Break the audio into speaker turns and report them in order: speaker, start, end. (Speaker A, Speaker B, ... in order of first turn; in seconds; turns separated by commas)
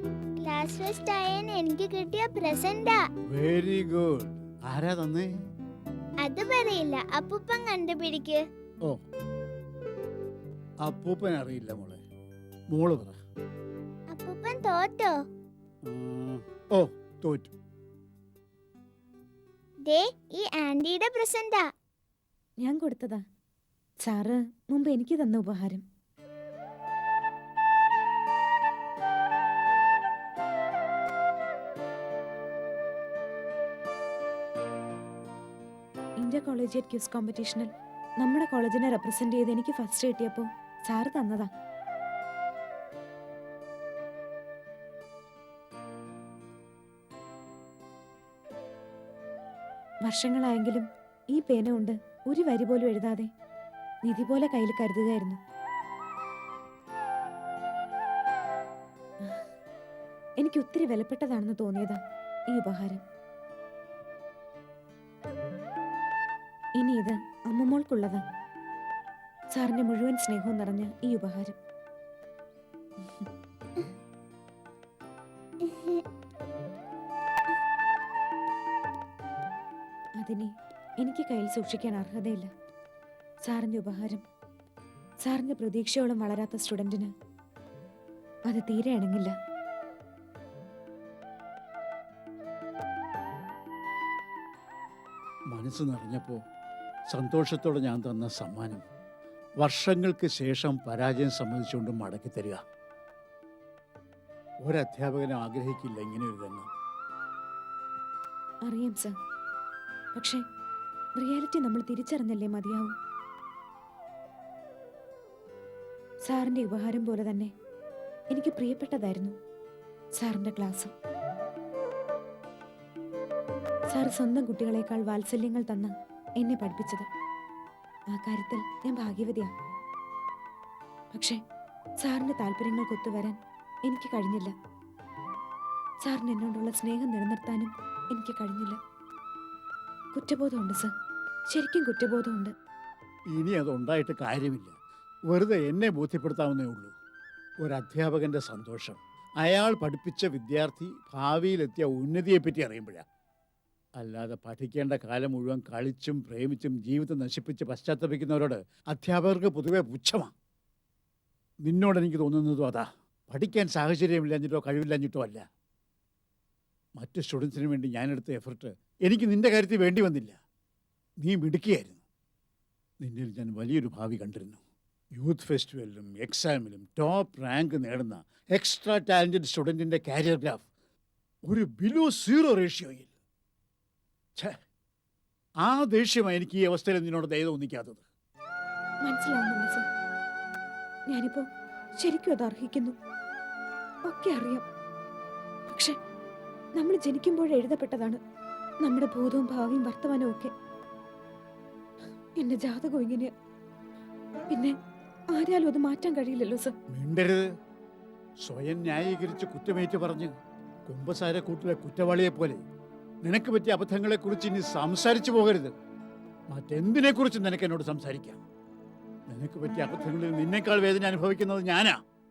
Speaker A: 0.4-3.0, Speaker B: 3.3-5.3, Speaker A: 6.2-8.4, Speaker B: 10.8-12.0, Speaker B: 12.7-13.2, Speaker A: 14.1-15.2, Speaker B: 15.9-17.5, Speaker A: 19.9-21.7, Speaker C: 22.6-23.2, Speaker C: 24.1-25.8, Speaker C: 36.2-37.7, Speaker C: 38.2-41.5, Speaker C: 50.1-53.3, Speaker C: 54.1-55.4, Speaker C: 60.4-62.0, Speaker C: 62.5-63.0, Speaker C: 66.8-68.2, Speaker C: 69.6-71.6, Speaker A: 75.7-76.0, Speaker C: 80.2-80.5, Speaker C: 81.0-82.5, Speaker C: 83.5-84.2, Speaker C: 85.2-87.1, Speaker C: 88.5-89.3, Speaker B: 95.5-96.4, Speaker B: 97.1-98.8, Speaker B: 99.6-102.6, Speaker B: 104.7-106.7, Speaker C: 108.7-109.1, Speaker C: 110.2-110.4, Speaker C: 111.2-112.9, Speaker C: 116.3-117.5, Speaker C: 118.3-119.3, Speaker C: 120.2-120.9, Speaker C: 123.9-127.1, Speaker C: 128.1-129.5, Speaker C: 132.0-134.5, Speaker C: 136.1-138.8, Speaker C: 140.2-140.9, Speaker C: 141.5-142.5, Speaker B: 143.3-144.8, Speaker B: 145.3-146.9, Speaker B: 147.6-153.0, Speaker B: 154.0-160.3, Speaker B: 161.7-165.4, Speaker B: 167.0-170.4, Speaker B: 171.2-172.0, Speaker B: 173.0-174.6, Speaker B: 175.2-180.7, Speaker B: 181.5-183.1, Speaker B: 185.6-188.1, Speaker C: 189.1-189.8, Speaker C: 191.1-191.4, Speaker C: 192.0-193.0, Speaker C: 194.1-194.7, Speaker C: 196.8-198.2, Speaker C: 198.8-200.5, Speaker C: 202.4-203.3, Speaker C: 205.3-206.7, Speaker B: 206.9-207.5, Speaker B: 208.4-210.3, Speaker B: 210.9-212.6, Speaker B: 213.2-215.7, Speaker B: 216.5-218.4, Speaker B: 219.3-222.0